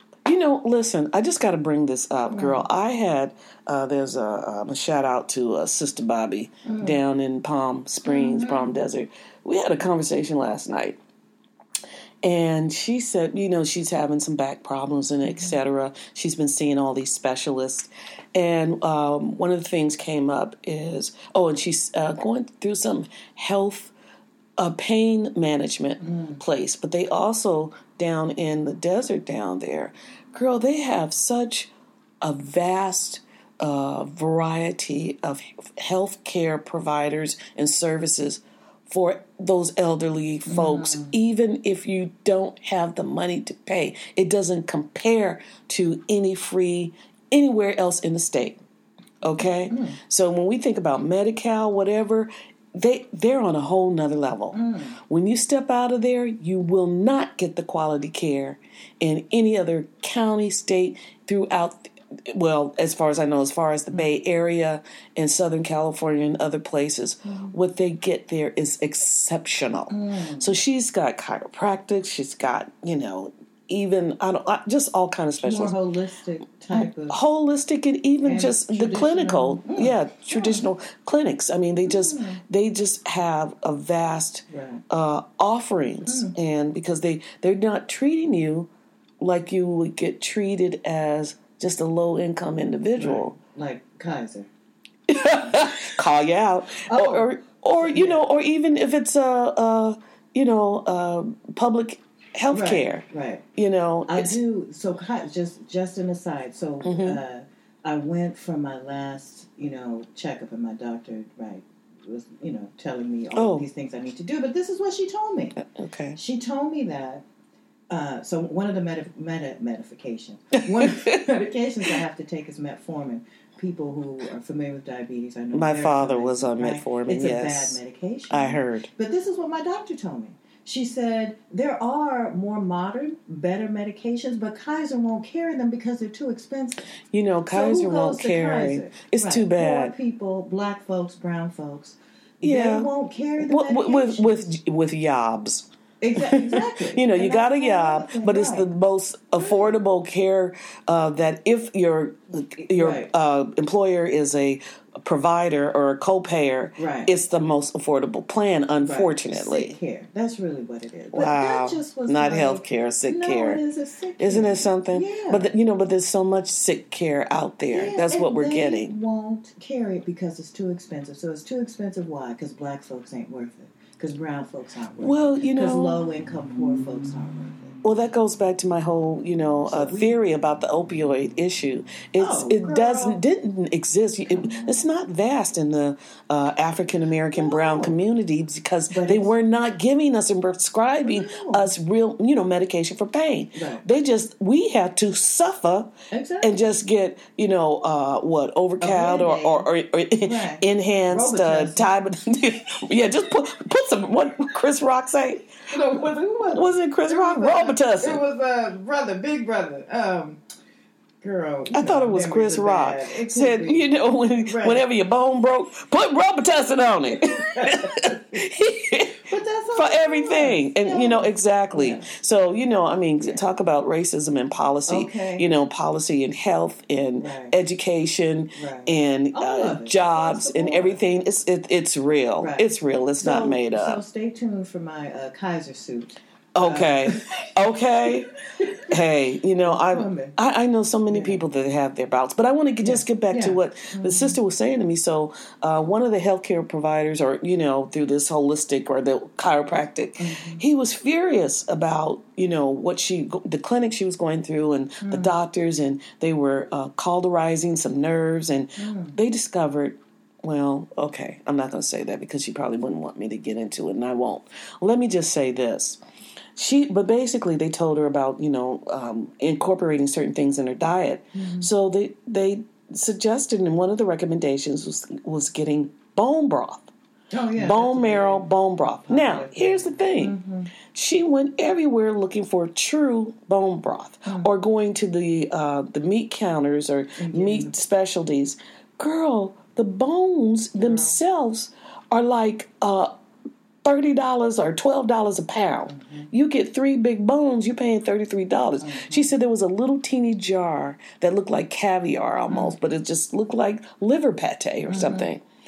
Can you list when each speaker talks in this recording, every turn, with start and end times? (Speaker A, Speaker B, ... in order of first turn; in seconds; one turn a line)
Speaker A: 0.2-11.0
Speaker B: 2.3-2.6
Speaker B: 6.6-7.0
Speaker B: 8.0-8.7
Speaker A: 12.2-23.9
Speaker B: 15.2-15.6
Speaker A: 24.6-31.7
Speaker B: 26.0-26.4
Speaker A: 32.2-48.6
Speaker B: 40.5-41.1
Speaker A: 49.2-75.8
Speaker B: 49.7-50.0
Speaker B: 54.5-55.0
Speaker B: 67.2-67.5
Speaker B: 69.9-70.6
Speaker B: 75.4-77.2
Speaker A: 76.7-93.3
Speaker B: 78.2-80.6
Speaker B: 81.8-82.4
Speaker B: 84.5-84.8
Speaker B: 86.1-86.3
Speaker B: 93.0-94.5
Speaker A: 95.1-104.4
Speaker B: 96.9-98.2
Speaker B: 102.5-103.4
Speaker B: 104.1-115.6
Speaker A: 106.8-107.2
Speaker A: 113.3-113.7
Speaker A: 115.6-116.2
Speaker B: 116.2-117.2
Speaker B: 117.9-136.9
Speaker A: 120.7-121.2
Speaker A: 125.5-127.8
Speaker A: 128.3-128.9
Speaker A: 137.1-139.9
Speaker B: 137.5-144.6
Speaker A: 142.4-159.8
Speaker B: 146.0-148.7
Speaker B: 149.4-149.8
Speaker B: 152.6-153.1
Speaker B: 156.8-157.1
Speaker B: 158.8-165.5
Speaker A: 161.1-163.6
Speaker A: 164.2-168.9
Speaker B: 167.7-177.8
Speaker A: 175.0-176.0
Speaker A: 177.8-205.5
Speaker B: 179.7-180.2
Speaker B: 182.2-183.2
Speaker B: 184.3-184.8
Speaker B: 187.3-187.9
Speaker B: 188.9-189.3
Speaker B: 191.0-191.7
Speaker B: 193.5-193.8
Speaker B: 196.1-196.6
Speaker B: 198.8-199.7
Speaker B: 200.2-201.9
Speaker B: 205.7-210.4
Speaker A: 206.5-208.2
Speaker B: 211.2-214.8
Speaker A: 211.7-219.2
Speaker B: 217.3-218.1
Speaker B: 219.3-222.1
Speaker A: 219.8-234.0
Speaker B: 224.9-225.4
Speaker B: 227.2-227.5
Speaker B: 228.5-231.0
Speaker B: 232.4-232.7
Speaker B: 233.2-237.5
Speaker A: 236.5-238.3
Speaker B: 238.6-238.9
Speaker A: 238.8-266.0
Speaker B: 239.6-240.3
Speaker B: 241.1-241.4
Speaker B: 242.8-244.4
Speaker B: 250.2-250.6
Speaker B: 255.0-255.3
Speaker B: 258.8-259.2
Speaker A: 266.6-276.9
Speaker B: 271.3-271.7
Speaker B: 277.3-280.7
Speaker A: 277.6-280.3
Speaker A: 280.9-293.1
Speaker B: 287.2-287.7
Speaker B: 290.8-291.1
Speaker A: 293.8-305.4
Speaker B: 295.9-296.3
Speaker B: 298.8-299.3
Speaker B: 302.5-302.8
Speaker B: 304.9-305.3